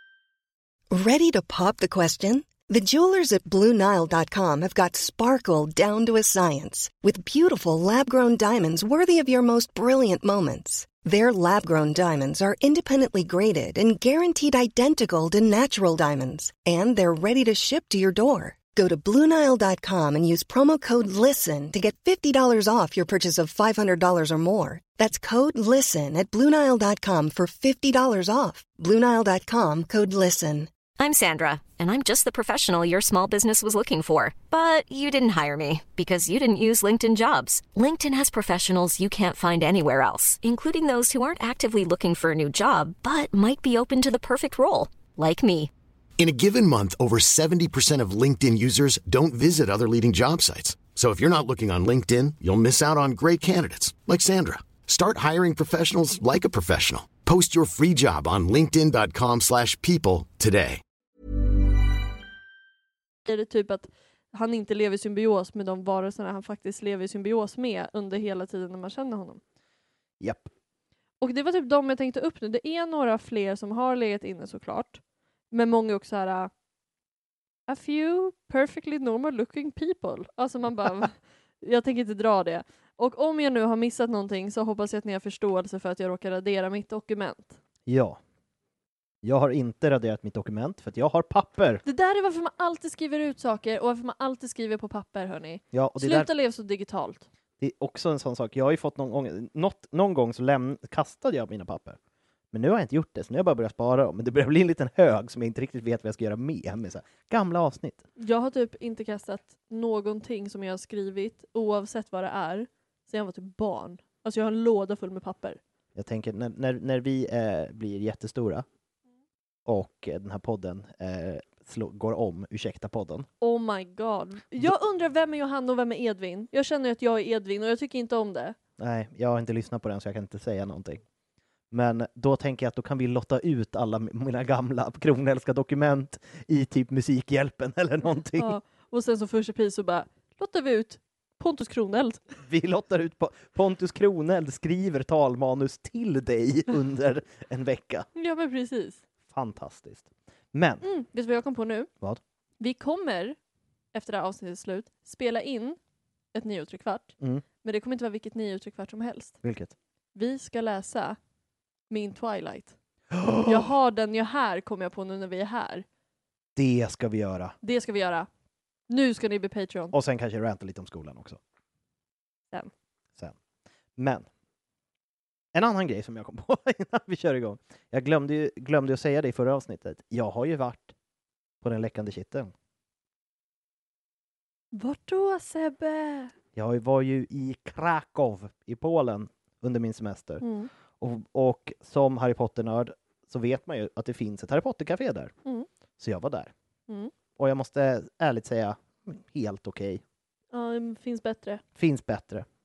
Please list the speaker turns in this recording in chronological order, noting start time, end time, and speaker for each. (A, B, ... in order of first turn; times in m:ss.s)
0:00.9-0:30.7 A
0:31.0-0:45.7 B
0:46.2-1:00.8 C
1:03.2-1:09.4 D
1:10.2-1:10.5 E
1:11.2-1:16.5 D
1:17.7-1:27.6 D
1:27.9-1:28.2 E
1:29.2-1:31.8 E
1:31.8-1:37.2 D
1:35.7-1:36.3 E
1:37.6-1:42.0 E
1:42.5-1:48.0 E
1:48.2-1:55.6 D
1:55.9-1:58.6 E
1:59.6-2:03.3 E
2:03.4-2:08.6 D
2:08.8-2:11.0 E
2:11.7-2:18.6 E
2:18.4-2:22.2 D
2:22.4-2:28.1 E
2:28.2-2:29.0 D
2:29.3-2:30.8 E
2:30.8-2:31.9 D
2:32.6-2:33.4 D
2:33.9-2:35.8 D
2:36.3-2:39.4 D
2:37.2-2:37.4 E
2:39.4-2:39.7 E
2:40.1-2:41.2 D
2:41.9-2:42.7 D
2:43.1-2:43.7 E
2:43.4-2:45.8 D
2:46.5-2:47.6 E
2:47.6-2:48.3 D
2:48.9-2:49.9 D
2:49.9-2:51.4 E
2:54.0-2:54.2 E
2:55.5-3:00.9 E
3:01.6-3:02.5 E
3:04.7-3:06.3 D
3:06.6-3:10.4 E
3:10.4-3:10.7 D
3:11.0-3:15.3 E
3:16.0-3:16.5 E
3:17.4-3:20.0 E
3:20.5-3:21.6 D
3:21.8-3:22.4 E